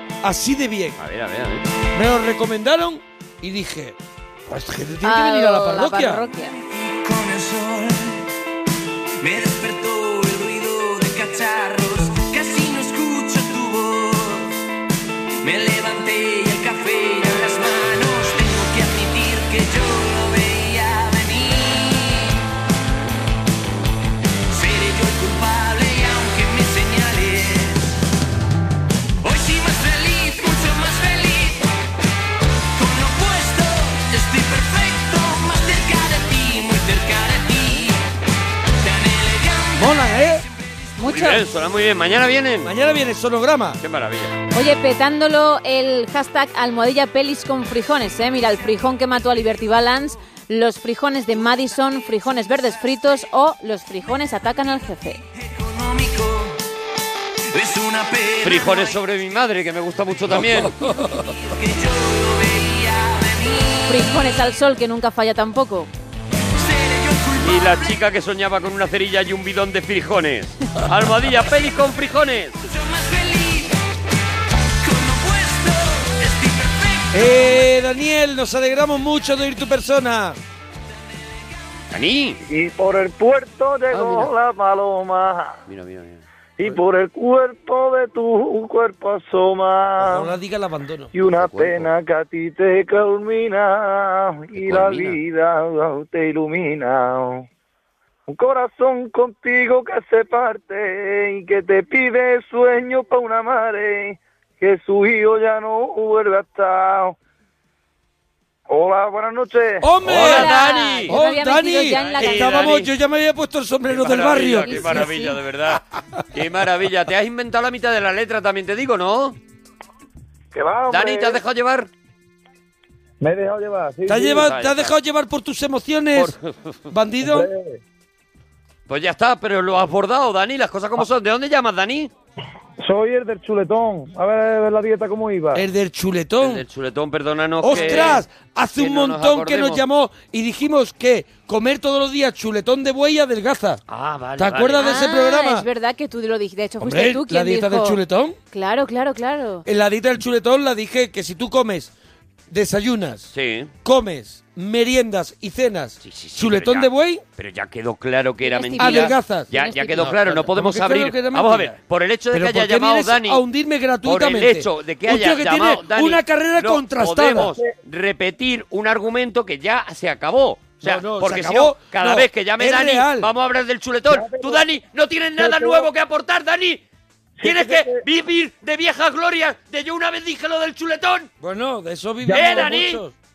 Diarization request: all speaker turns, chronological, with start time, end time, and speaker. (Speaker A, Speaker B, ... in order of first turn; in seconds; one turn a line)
Speaker A: 0.2-1.0
Speaker B: 1.0-1.7
Speaker A: 1.9-6.2
Speaker C: 5.0-6.6
Speaker D: 6.6-8.3
Speaker D: 9.2-14.6
Speaker D: 15.4-22.4
Speaker D: 24.5-27.9
Speaker D: 29.2-31.6
Speaker D: 32.8-38.1
Speaker D: 38.8-40.4
Speaker A: 39.8-40.5
Speaker C: 41.0-41.4
Speaker B: 41.0-42.7
Speaker A: 42.6-43.8
Speaker B: 43.8-44.3
Speaker C: 44.5-55.2
Speaker D: 55.4-56.6
Speaker D: 57.5-59.0
Speaker B: 58.4-60.8
Speaker A: 60.3-60.7
Speaker D: 61.3-64.3
Speaker C: 63.9-65.9
Speaker D: 66.6-68.0
Speaker B: 67.4-72.6
Speaker D: 72.6-73.8
Speaker D: 74.8-77.3
Speaker A: 77.1-80.4
Speaker B: 81.9-82.4
Speaker E: 82.5-85.6
Speaker B: 83.9-84.3
Speaker B: 85.7-86.2
Speaker E: 86.6-90.3
Speaker A: 90.0-91.1
Speaker E: 91.1-97.5
Speaker B: 91.3-91.9
Speaker B: 94.6-95.2
Speaker E: 98.3-107.2
Speaker E: 108.7-109.9
Speaker A: 109.8-115.1
Speaker B: 110.0-111.2
Speaker C: 110.1-112.7
Speaker B: 111.9-112.9
Speaker B: 113.9-119.4
Speaker C: 114.7-115.4
Speaker E: 120.5-121.4
Speaker B: 120.9-121.9
Speaker E: 123.2-124.5
Speaker A: 124.1-126.3
Speaker B: 124.4-124.9
Speaker B: 126.2-126.8
Speaker A: 126.9-127.5
Speaker E: 127.2-127.8
Speaker B: 128.9-132.1
Speaker E: 132.8-135.7
Speaker A: 135.6-136.6
Speaker B: 136.4-138.2
Speaker A: 137.6-143.8
Speaker C: 137.7-138.2
Speaker B: 138.8-139.8
Speaker B: 143.9-144.9
Speaker A: 144.4-145.7
Speaker C: 144.8-148.0
Speaker A: 146.8-148.4
Speaker C: 148.5-149.7
Speaker A: 149.7-151.9
Speaker A: 152.5-153.3
Speaker B: 153.3-153.7
Speaker A: 153.8-157.2
Speaker B: 156.0-163.4
Speaker C: 158.4-160.1
Speaker A: 158.8-161.8
Speaker A: 162.3-167.6
Speaker B: 164.1-176.8
Speaker A: 170.8-173.3
Speaker E: 174.1-174.6
Speaker E: 175.4-175.9
Speaker E: 177.4-178.0
Speaker B: 177.4-181.3
Speaker A: 181.4-183.1
Speaker E: 182.2-182.8
Speaker B: 182.3-183.0